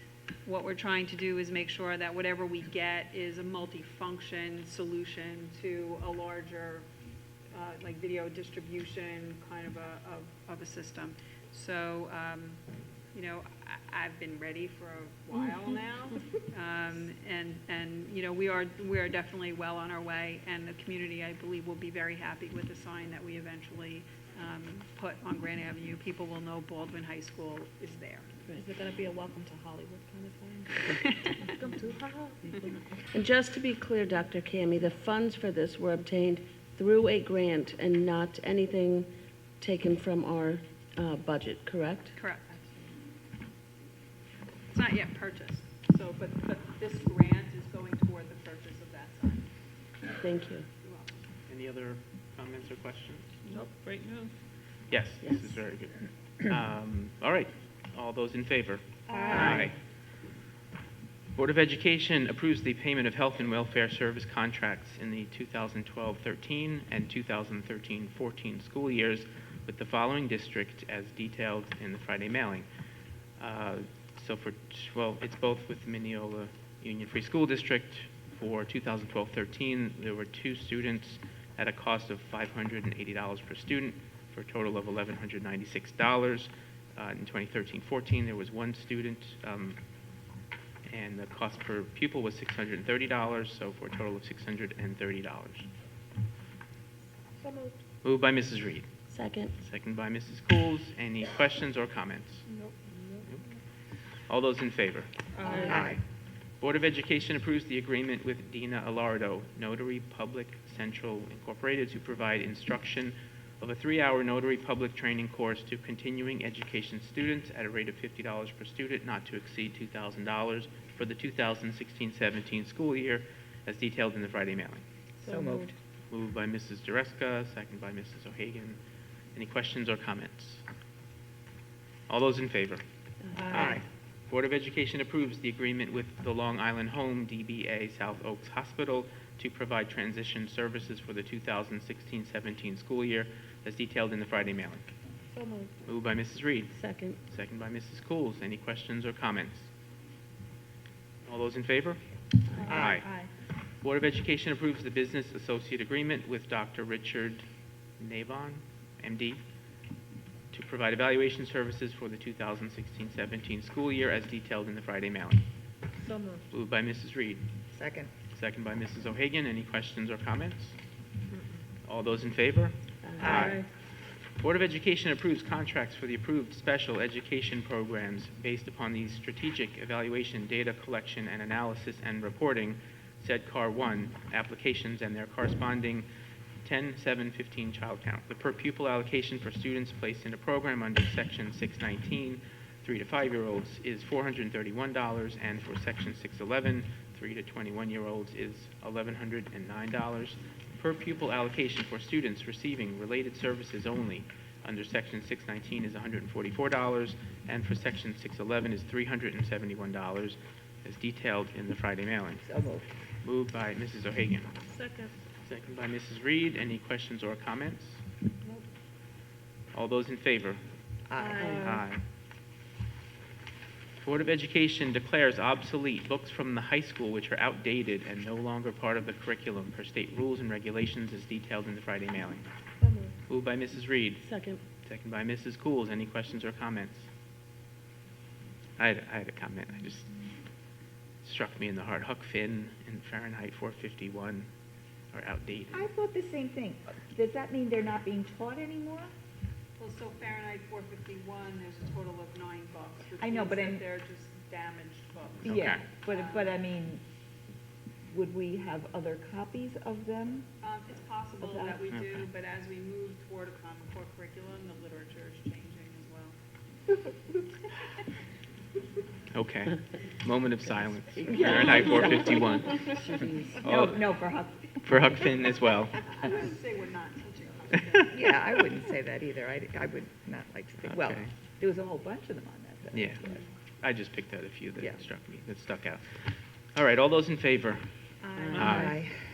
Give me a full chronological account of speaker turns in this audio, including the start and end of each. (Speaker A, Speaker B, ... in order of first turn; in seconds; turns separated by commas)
Speaker A: 0.4-6.9, Speaker A: 7.5-12.6, Speaker A: 13.1-28.3, Speaker B: 28.5-32.8, Speaker A: 30.9-31.4, Speaker C: 33.1-39.1, Speaker C: 39.6-42.1, Speaker A: 42.1-42.8, Speaker A: 44.7-49.5, Speaker C: 50.2-50.6, Speaker A: 50.8-51.2, Speaker D: 51.5-53.4, Speaker B: 53.5-54.3, Speaker D: 54.9-59.8, Speaker C: 55.2-55.6, Speaker B: 59.1-59.6, Speaker D: 61.3-72.7, Speaker D: 73.4-89.8, Speaker D: 90.9-95.7, Speaker B: 97.4-97.8, Speaker D: 98.0-98.9, Speaker C: 99.1-99.5, Speaker D: 99.6-102.4, Speaker B: 102.5-103.4, Speaker D: 104.3-105.1, Speaker B: 105.4-105.9, Speaker C: 105.4-105.8, Speaker E: 105.5-106.0, Speaker D: 106.6-124.8, Speaker E: 125.2-125.7, Speaker B: 125.2-125.7, Speaker D: 126.1-128.8, Speaker D: 129.3-130.6, Speaker D: 132.1-132.8, Speaker B: 133.3-133.8, Speaker E: 133.5-133.8, Speaker D: 134.3-144.9, Speaker B: 145.3-145.7, Speaker D: 145.8-149.7, Speaker C: 146.7-147.2, Speaker D: 151.2-152.0, Speaker D: 152.6-153.1, Speaker B: 152.7-153.1, Speaker E: 152.7-153.2, Speaker D: 153.8-157.4, Speaker D: 158.0-159.4, Speaker D: 160.5-165.4, Speaker B: 166.0-166.4, Speaker D: 166.5-167.5, Speaker E: 167.7-168.1, Speaker D: 168.3-170.8, Speaker D: 171.8-173.7, Speaker C: 173.1-173.4, Speaker E: 173.2-173.6, Speaker B: 173.3-173.6, Speaker D: 174.3-186.1, Speaker D: 186.6-212.5, Speaker E: 212.4-213.0, Speaker D: 213.2-214.6, Speaker B: 214.7-215.1, Speaker D: 215.4-218.0, Speaker D: 219.7-220.6, Speaker E: 221.1-221.7, Speaker B: 221.2-221.8, Speaker C: 221.4-221.7, Speaker D: 221.6-222.0, Speaker D: 224.0-232.4, Speaker B: 232.8-233.1, Speaker D: 233.3-234.3, Speaker C: 234.2-234.6, Speaker D: 234.8-237.1, Speaker D: 238.8-240.1, Speaker D: 241.2-244.5, Speaker D: 245.1-245.9, Speaker E: 245.7-249.1, Speaker A: 249.8-256.5, Speaker E: 253.2-253.8, Speaker D: 255.4-255.8, Speaker E: 255.4-257.0, Speaker E: 258.1-260.5, Speaker A: 260.6-266.4, Speaker E: 261.4-261.8, Speaker D: 261.9-262.3, Speaker D: 269.3-274.1, Speaker E: 271.3-272.6, Speaker E: 273.2-275.1, Speaker D: 274.8-276.0, Speaker A: 276.1-278.2, Speaker E: 278.1-283.4, Speaker D: 280.9-281.3, Speaker D: 282.9-283.3, Speaker D: 283.8-287.9, Speaker A: 288.4-288.7, Speaker B: 288.4-288.6, Speaker C: 288.4-288.8, Speaker D: 288.5-289.0, Speaker E: 288.5-289.2